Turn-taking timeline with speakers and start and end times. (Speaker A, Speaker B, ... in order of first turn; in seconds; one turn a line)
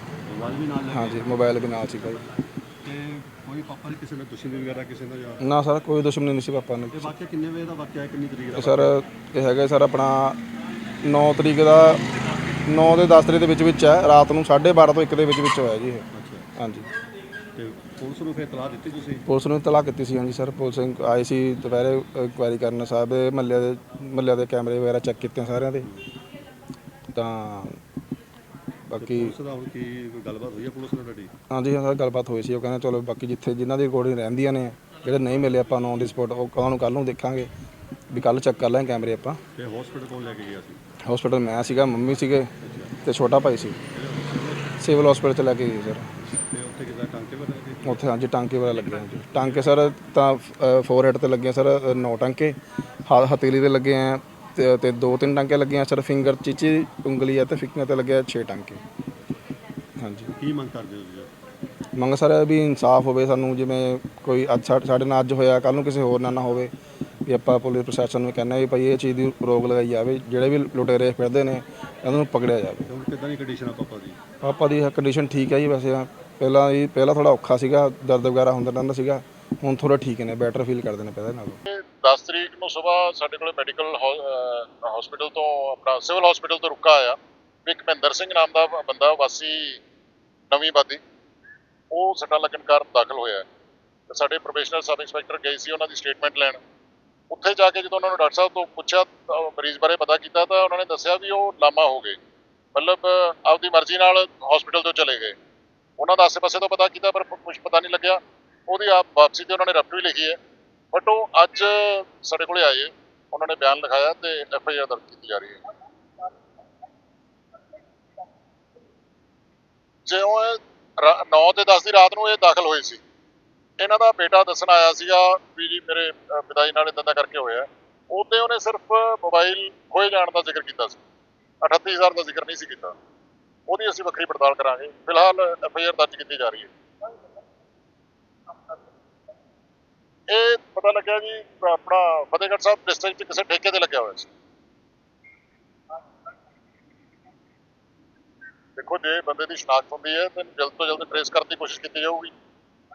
Speaker A: 0.3-1.4
Speaker B: 0.9-2.2
Speaker A: 2.8-5.4
Speaker B: 5.4-7.1
Speaker A: 6.9-8.9
Speaker B: 8.6-10.4
Speaker B: 11.0-12.0
Speaker B: 12.7-16.9
Speaker A: 16.1-16.5
Speaker A: 17.6-19.2
Speaker B: 19.3-25.9
Speaker B: 27.1-27.8
Speaker B: 28.9-29.4
Speaker A: 29.0-31.3
Speaker B: 31.5-37.5
Speaker B: 38.1-39.4
Speaker A: 39.6-40.8
Speaker B: 41.0-43.8
Speaker A: 42.6-42.9
Speaker A: 43.9-44.8
Speaker B: 44.8-46.1
Speaker A: 46.4-48.1
Speaker B: 47.9-58.8
Speaker A: 48.7-49.8
Speaker B: 60.0-60.3
Speaker A: 60.3-61.3
Speaker B: 62.0-66.7
Speaker B: 67.3-72.9
Speaker A: 72.9-74.2
Speaker B: 74.4-81.6
Speaker C: 81.7-89.8
Speaker C: 90.5-91.0
Speaker C: 91.9-93.5
Speaker C: 94.1-96.6
Speaker C: 97.3-102.2
Speaker C: 102.8-105.4
Speaker C: 106.0-110.4
Speaker C: 110.9-115.6
Speaker C: 120.1-123.0
Speaker C: 123.8-131.0
Speaker C: 131.6-132.9
Speaker C: 133.7-136.7
Speaker C: 140.3-144.3
Speaker C: 148.8-152.3